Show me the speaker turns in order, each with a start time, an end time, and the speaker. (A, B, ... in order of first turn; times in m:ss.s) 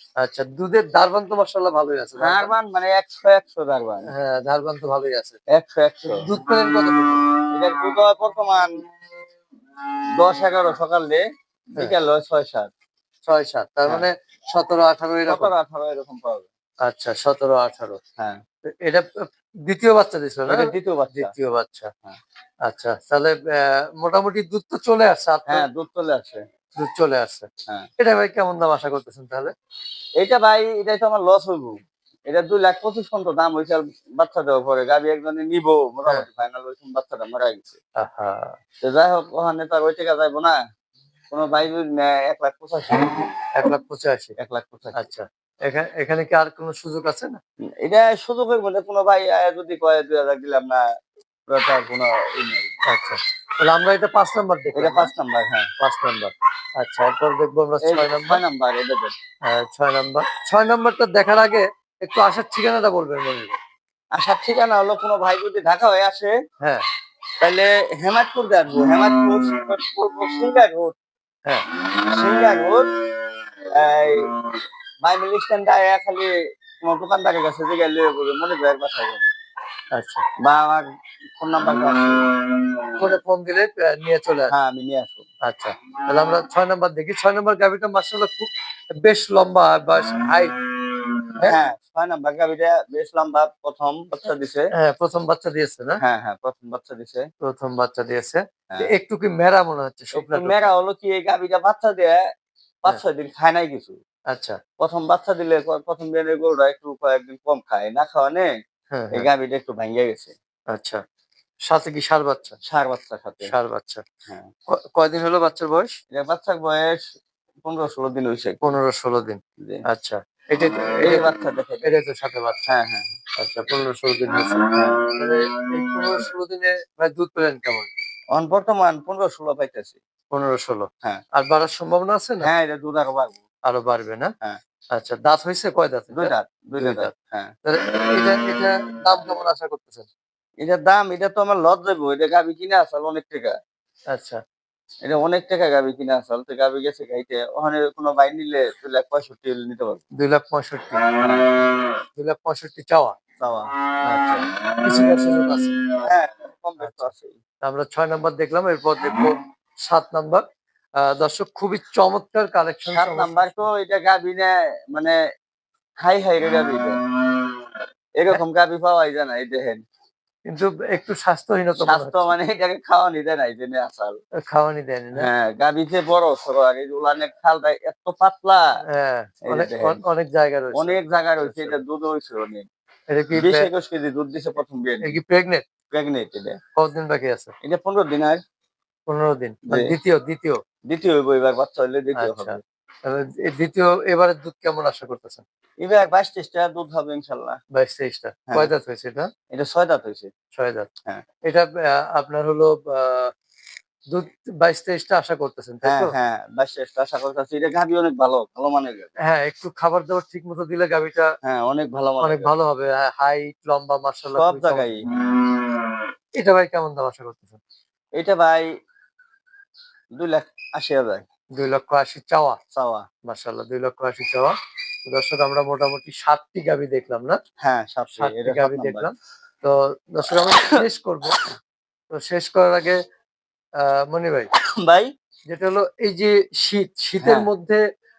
0:00.2-0:02.5 A
0:02.2-0:04.1 B
0:04.1-0:05.4 A
0:05.5-0:06.2 B
0:06.1-0:07.2 A
0:07.5-0:08.7 B
0:10.2-0:11.2 B
0:11.7-0:12.7 B
0:13.3-0:15.5 A
0:15.2-0:16.5 B
0:16.8-0:18.0 A
0:18.7-0:21.9 A
0:20.5-0:21.3 B
0:22.7-0:25.7 A
0:25.5-0:26.4 B
0:26.8-0:27.5 A
0:28.0-0:29.5 A
0:30.2-0:37.8 B
0:38.0-0:38.6 A
0:38.8-0:40.6 B
0:41.3-0:43.3 B
0:43.5-0:44.3 A
0:44.4-0:44.9 B
0:45.0-0:47.4 A
0:47.8-0:50.8 B
0:51.5-0:52.7 B
0:52.9-0:55.1 A
0:54.8-0:55.7 B
0:55.8-0:58.4 A
0:57.8-0:59.1 B
0:59.4-1:03.6 A
1:04.1-1:06.3 B
1:07.4-1:11.0 B
1:12.0-1:12.8 B
1:13.7-1:14.3 B
1:15.0-1:19.3 B
1:19.9-1:20.2 A
1:20.4-1:20.8 B
1:21.4-1:22.2 B
1:23.0-1:24.5 A
1:24.5-1:25.2 B
1:25.4-1:30.5 A
1:31.4-1:34.6 B
1:34.8-1:36.0 A
1:36.0-1:37.2 B
1:37.4-1:40.6 A
1:40.1-1:42.2 B
1:42.8-1:44.0 B
1:44.3-1:44.6 A
1:44.8-1:48.5 B
1:48.9-1:49.3 A
1:49.1-1:50.3 B
1:50.7-1:51.0 A
1:51.7-1:52.6 A
1:52.6-1:53.5 B
1:53.4-1:54.0 A
1:54.7-1:55.9 A
1:56.1-1:57.0 B
1:57.6-1:58.6 B
1:58.6-2:01.3 A
2:01.0-2:01.9 B
2:01.8-2:02.6 A
2:02.7-2:03.2 B
2:03.4-2:07.9 A
2:04.7-2:05.0 B
2:08.3-2:10.0 B
2:10.3-2:12.5 A
2:12.4-2:13.4 B
2:13.6-2:14.3 A
2:14.9-2:17.1 A
2:16.1-2:17.5 B
2:17.6-2:20.1 A
2:20.6-2:23.5 B
2:24.1-2:24.4 A
2:25.0-2:30.0 B
2:30.2-2:31.0 A
2:31.2-2:31.4 B
2:32.2-2:33.1 A
2:33.4-2:33.7 B
2:34.0-2:35.8 A
2:36.0-2:37.4 B
2:36.8-2:37.1 A
2:37.6-2:40.4 A
2:41.0-2:43.6 A
2:42.9-2:45.2 B
2:46.0-2:47.0 B
2:48.2-2:49.8 B
2:50.5-2:52.3 A
2:51.8-2:54.1 B
2:54.4-2:55.3 A
2:55.2-2:58.6 B
2:58.9-3:01.8 A
2:59.4-3:00.0 B
3:00.8-3:02.7 B
3:03.1-3:03.7 A
3:03.4-3:05.2 B
3:05.0-3:05.6 A
3:05.9-3:06.6 B
3:06.8-3:07.5 A
3:07.6-3:08.4 B
3:09.1-3:10.6 A
3:10.9-3:12.6 B
3:12.2-3:15.4 A
3:15.8-3:17.6 B
3:17.7-3:19.3 A
3:19.5-3:20.3 B
3:20.5-3:20.9 A
3:21.5-3:23.3 A
3:24.1-3:26.1 A
3:25.8-3:29.1 B
3:29.2-3:31.3 A
3:31.4-3:32.5 B
3:32.2-3:35.0 A
3:34.3-3:35.2 B
3:36.4-3:37.6 A
3:38.2-3:38.7 B
3:40.2-3:41.2 B
3:41.6-3:42.6 A
3:42.7-3:43.0 B
3:43.3-3:44.5 A
3:45.0-3:47.4 A
3:47.6-3:49.1 B
3:48.2-3:51.4 A
3:50.2-3:50.6 B
3:52.1-3:53.0 A
3:53.8-3:54.5 A
3:54.8-3:55.1 B
3:55.5-3:57.8 A
3:57.2-3:57.5 B